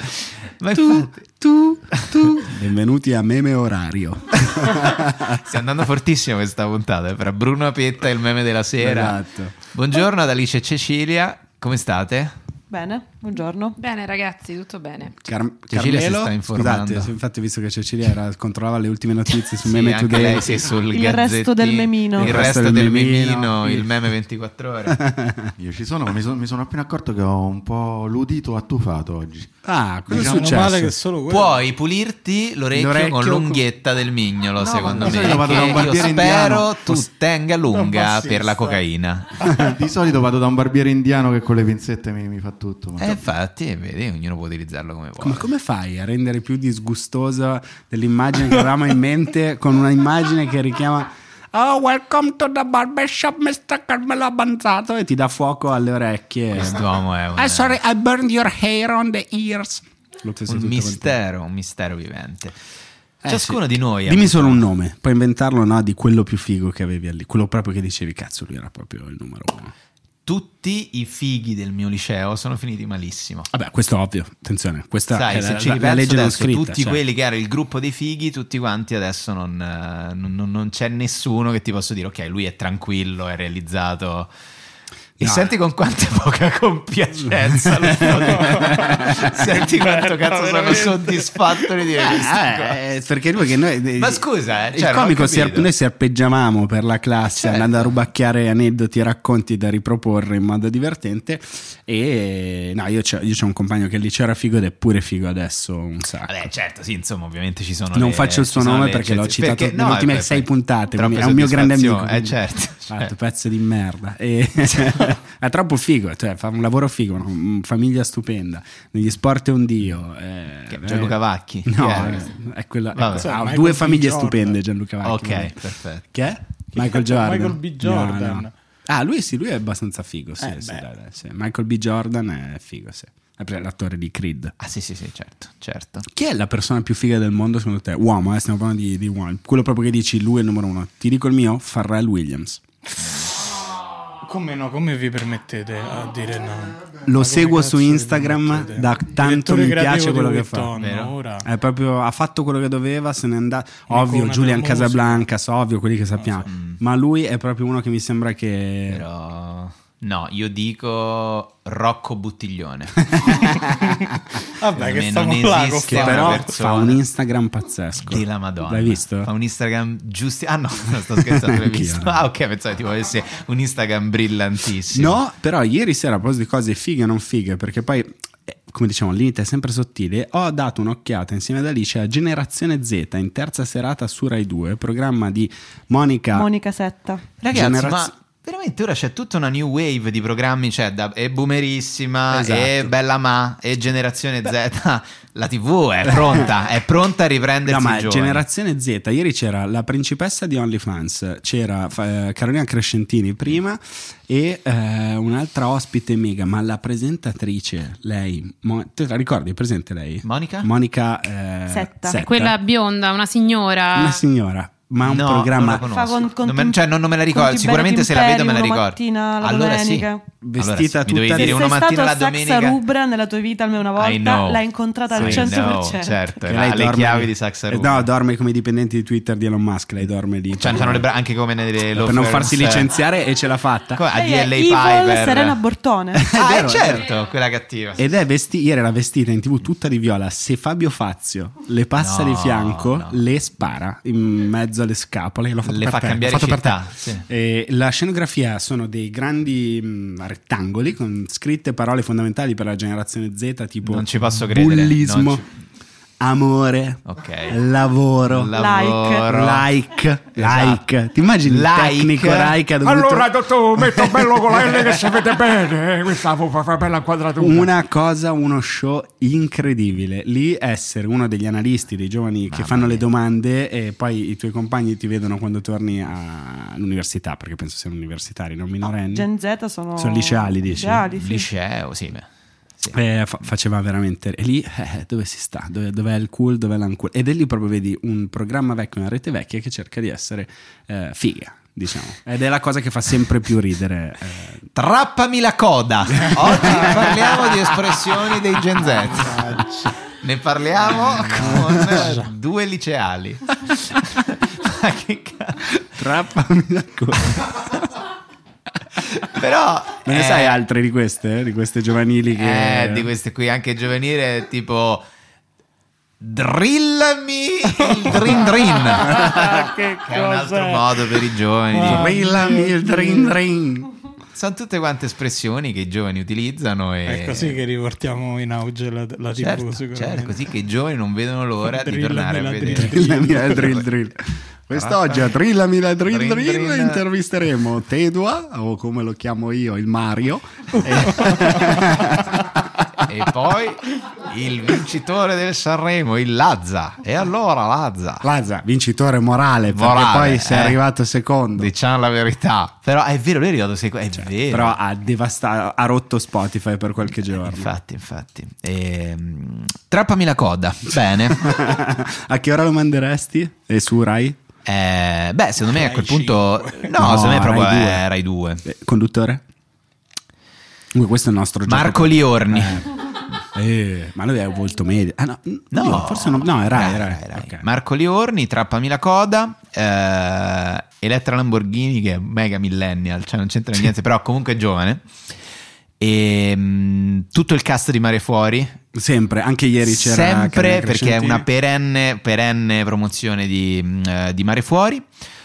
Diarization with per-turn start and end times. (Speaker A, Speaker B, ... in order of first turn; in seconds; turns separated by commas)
Speaker A: 0.6-1.4, Speaker B: 0.8-5.5, Speaker A: 1.9-2.5, Speaker A: 5.4-9.2, Speaker B: 8.8-9.5, Speaker A: 9.7-12.3, Speaker C: 12.7-13.8, Speaker D: 13.8-15.1, Speaker B: 15.2-20.7, Speaker A: 15.7-17.1, Speaker A: 19.6-25.0, Speaker C: 20.9-22.4, Speaker B: 22.2-24.1, Speaker B: 24.9-25.5, Speaker E: 25.6-29.5, Speaker B: 29.6-30.9, Speaker E: 30.1-30.7, Speaker F: 30.2-31.6, Speaker A: 31.3-39.5, Speaker B: 32.7-33.6, Speaker E: 34.6-37.0, Speaker F: 37.7-38.8, Speaker E: 39.6-43.2, Speaker A: 43.0-45.5, Speaker B: 45.2-56.8, Speaker A: 56.5-57.8, Speaker B: 57.4-61.1, Speaker A: 60.5-62.5, Speaker B: 63.2-69.7, Speaker A: 63.2-64.6, Speaker A: 70.2-73.5, Speaker B: 73.5-77.0, Speaker A: 75.1-84.3, Speaker B: 85.2-85.5, Speaker A: 85.2-92.8, Speaker B: 87.8-88.3, Speaker F: 88.1-91.7, Speaker B: 91.9-106.5, Speaker A: 94.0-95.7, Speaker A: 97.3-97.9, Speaker A: 106.2-113.1, Speaker B: 107.9-112.4, Speaker B: 112.9-134.5, Speaker A: 120.7-122.2, Speaker A: 122.9-123.3, Speaker F: 123.1-124.6, Speaker A: 125.0-126.0, Speaker F: 126.7-128.5, Speaker F: 130.4-130.8, Speaker A: 134.6-136.0, Speaker B: 136.1-142.6, Speaker F: 144.2-151.5, Speaker B: 147.1-150.7, Speaker A: 150.7-151.2, Speaker B: 151.4-159.1, Speaker F: 153.9-155.2, Speaker A: 156.5-156.8, Speaker A: 158.9-163.4, Speaker F: 163.6-164.0, Speaker F: 164.6-166.5, Speaker A: 164.7-167.0, Speaker B: 165.9-169.3, Speaker A: 168.0-175.2, Speaker B: 171.3-172.2, Speaker B: 174.9-186.5, Speaker C: 186.3-187.2, Speaker A: 187.4-198.4, Speaker B: 187.5-188.1, Speaker B: 192.3-192.9, Speaker B: 196.0-196.5, Speaker B: 197.6-212.6, Speaker A: 210.2-210.7, Speaker C: 211.7-212.3, Speaker D: 212.2-214.2, Speaker B: 213.9-215.8, Speaker A: 215.0-222.8, Speaker C: 215.6-216.8, Speaker C: 217.3-220.2, Speaker B: 220.4-221.6, Speaker C: 221.3-226.3, Speaker A: 224.0-228.1, Speaker B: 225.2-225.6, Speaker B: 226.4-231.1, Speaker A: 230.6-232.9, Speaker B: 231.9-234.0, Speaker A: 233.9-235.6, Speaker C: 234.1-236.3, Speaker B: 236.1-237.1, Speaker A: 236.3-238.1, Speaker B: 237.9-255.4, Speaker A: 242.0-243.2, Speaker A: 245.6-247.2, Speaker A: 253.8-255.4, Speaker B: 256.2-258.5, Speaker A: 257.1-257.6, Speaker A: 258.3-259.7, Speaker C: 258.5-259.2, Speaker B: 259.3-265.3, Speaker A: 260.3-260.8, Speaker A: 261.4-262.6, Speaker G: 262.8-267.7, Speaker B: 267.4-279.3, Speaker A: 272.5-273.0, Speaker C: 279.1-281.5, Speaker B: 279.9-281.1, Speaker A: 281.1-282.2, Speaker B: 282.9-294.6, Speaker A: 294.7-305.9, Speaker B: 296.2-297.5, Speaker F: 299.1-299.9, Speaker F: 301.3-302.2, Speaker B: 301.4-302.0, Speaker B: 306.0-307.8, Speaker A: 309.1-310.6, Speaker B: 310.1-313.1, Speaker A: 312.4-315.0, Speaker A: 316.2-322.2, Speaker F: 317.8-323.4, Speaker B: 321.8-323.9, Speaker A: 324.3-327.6, Speaker F: 327.1-330.4, Speaker A: 329.4-333.9, Speaker F: 331.6-333.7, Speaker B: 332.8-342.8, Speaker A: 334.7-335.3, Speaker A: 336.1-337.0, Speaker A: 343.1-348.2, Speaker B: 348.2-351.7, Speaker A: 349.7-350.8, Speaker A: 351.6-354.8, Speaker B: 354.2-357.7, Speaker A: 357.4-361.5, Speaker B: 361.3-364.4, Speaker A: 364.6-368.6, Speaker F: 365.6-366.9, Speaker B: 366.9-368.1, Speaker B: 368.6-369.4, Speaker B: 370.9-372.9, Speaker A: 371.7-372.9, Speaker B: 373.5-377.6, Speaker A: 375.7-385.0, Speaker A: 386.0-388.8, Speaker B: 388.9-391.4, Speaker A: 389.9-395.1